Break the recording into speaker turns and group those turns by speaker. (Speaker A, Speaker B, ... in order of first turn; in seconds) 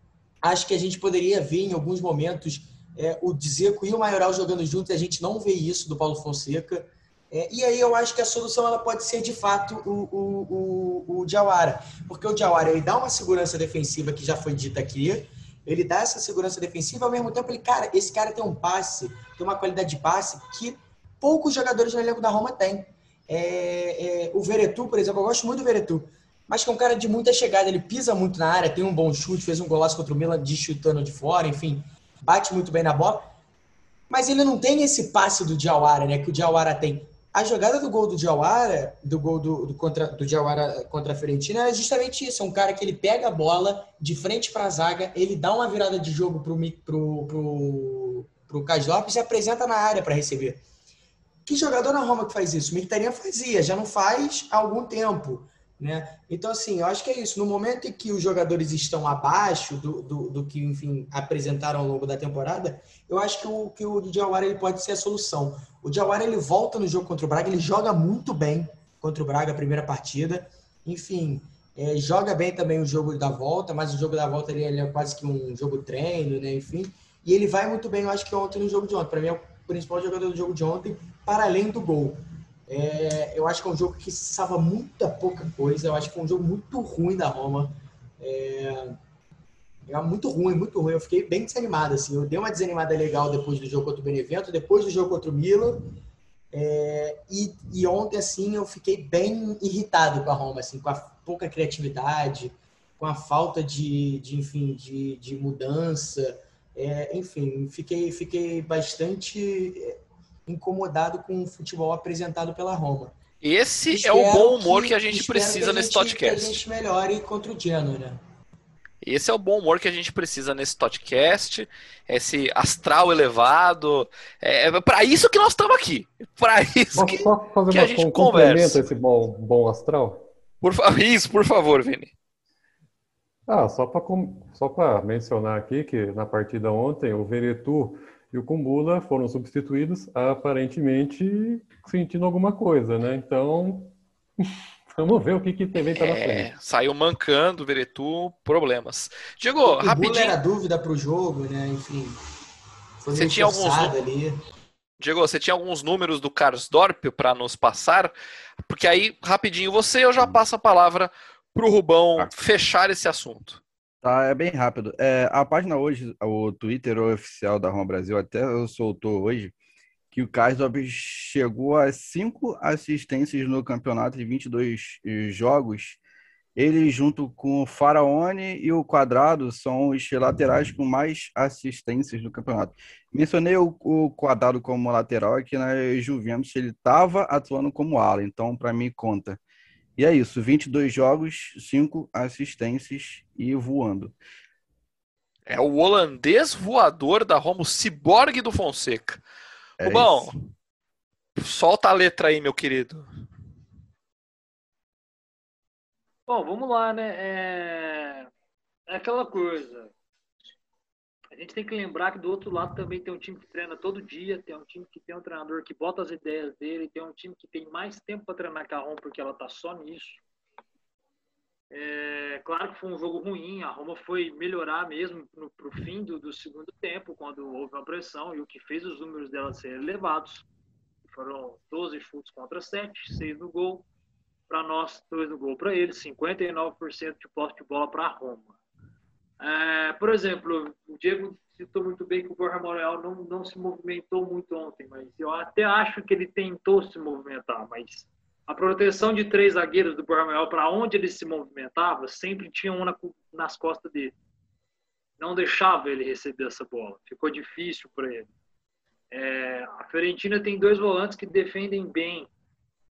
Speaker A: 0.4-33.3, 34.1-50.6, 51.5-89.0, 89.9-95.9, 96.5-113.1, 113.9-118.2, 149.6-152.2, 153.0-154.4
Speaker B: 113.4-116.6, 119.0-128.8, 130.6-132.1, 145.9-150.3, 153.1-153.9, 155.0-158.1, 158.7-163.6, 195.5-199.2, 199.8-200.4, 201.4-203.1
Speaker C: 126.9-130.2, 133.5-146.5
Speaker D: 164.0-169.5, 170.1-176.0, 176.6-189.4, 190.0-194.1, 199.8-200.3
Speaker E: 206.3-208.3, 208.9-209.9, 211.3-220.2, 221.7-230.4, 231.1-233.8, 234.5-238.5, 239.4-254.1, 255.2-258.3, 259.1-262.3